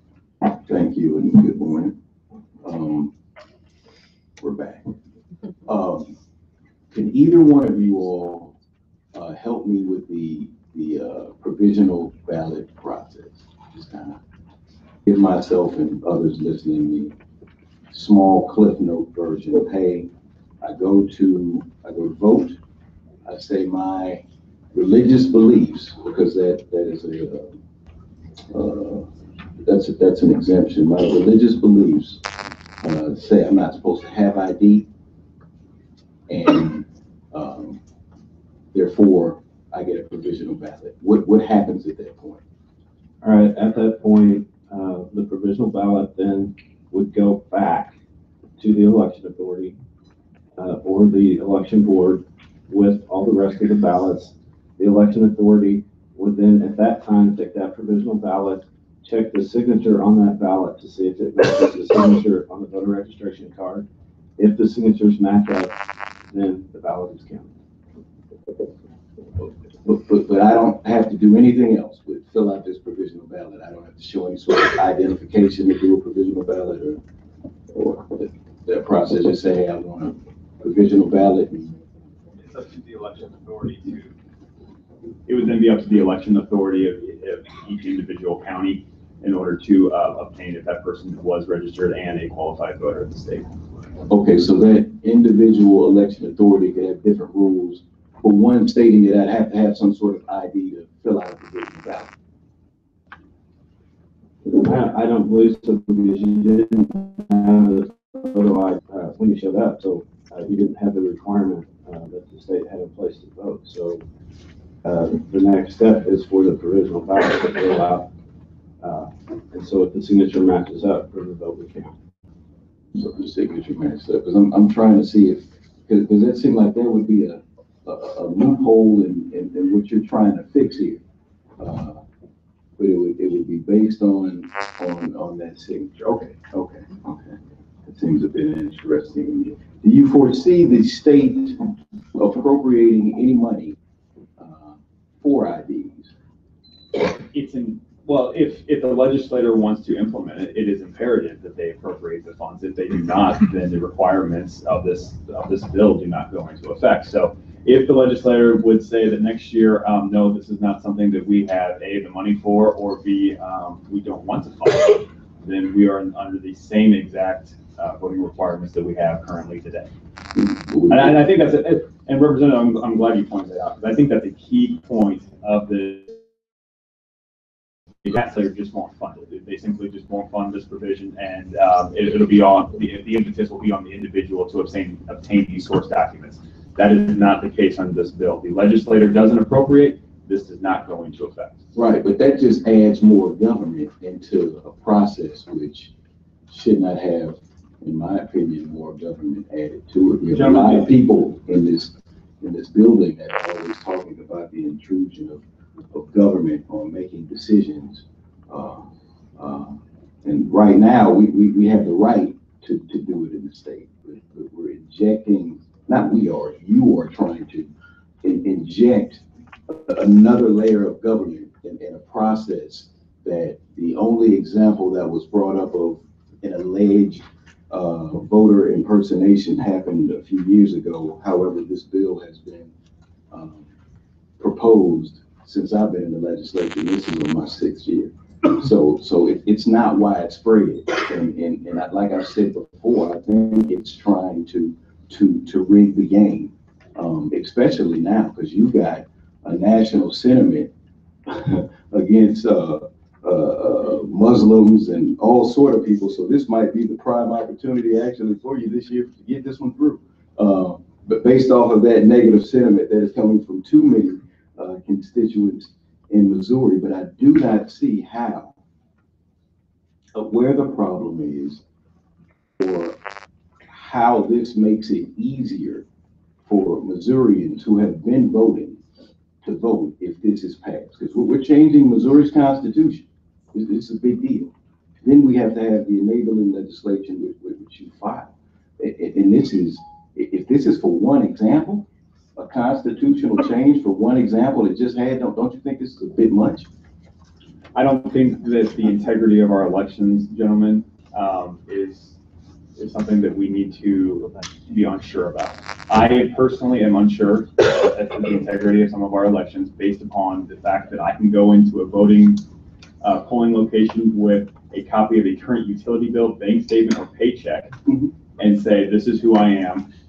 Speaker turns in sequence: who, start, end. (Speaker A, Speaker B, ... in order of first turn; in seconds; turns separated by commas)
Speaker A: 0.6-1.9, Speaker A: 2.6-3.1, Speaker A: 4.4-4.9, Speaker A: 5.7-6.1, Speaker A: 6.9-8.5, Speaker A: 9.1-14.2, Speaker A: 15.0-17.1, Speaker A: 17.9-22.6, Speaker A: 23.2-24.2, Speaker A: 24.7-27.5, Speaker A: 28.5-29.1, Speaker A: 29.6-32.2, Speaker A: 32.8-34.9, Speaker A: 36.3-37.8, Speaker A: 38.7-42.4, Speaker B: 43.2-47.9, Speaker B: 48.6-49.7, Speaker B: 50.6-63.9, Speaker B: 64.4-65.7, Speaker B: 66.3-67.5, Speaker A: 69.8-77.0, Speaker A: 77.7-81.7, Speaker C: 82.5-84.1, Speaker C: 85.3-93.4, Speaker A: 94.1-102.1, Speaker B: 104.5-114.0, Speaker B: 114.8-118.1, Speaker B: 118.8-121.9, Speaker A: 122.9-131.0, Speaker A: 131.6-132.0, Speaker A: 132.8-143.8, Speaker A: 144.4-146.1, Speaker C: 147.3-169.9, Speaker A: 170.3-171.2, Speaker C: 170.9-176.2, Speaker C: 178.0-191.6, Speaker A: 191.7-195.9, Speaker A: 196.5-208.8, Speaker A: 209.3-217.7, Speaker A: 218.2-232.7, Speaker A: 233.3-233.7, Speaker A: 234.4-250.7, Speaker A: 251.2-268.5, Speaker A: 270.1-271.6, Speaker A: 272.6-273.0, Speaker A: 273.6-275.8, Speaker A: 276.4-278.8, Speaker A: 279.4-296.7, Speaker C: 297.7-302.2, Speaker C: 302.8-312.4, Speaker C: 313.0-317.7, Speaker A: 317.9-318.1, Speaker C: 318.4-319.9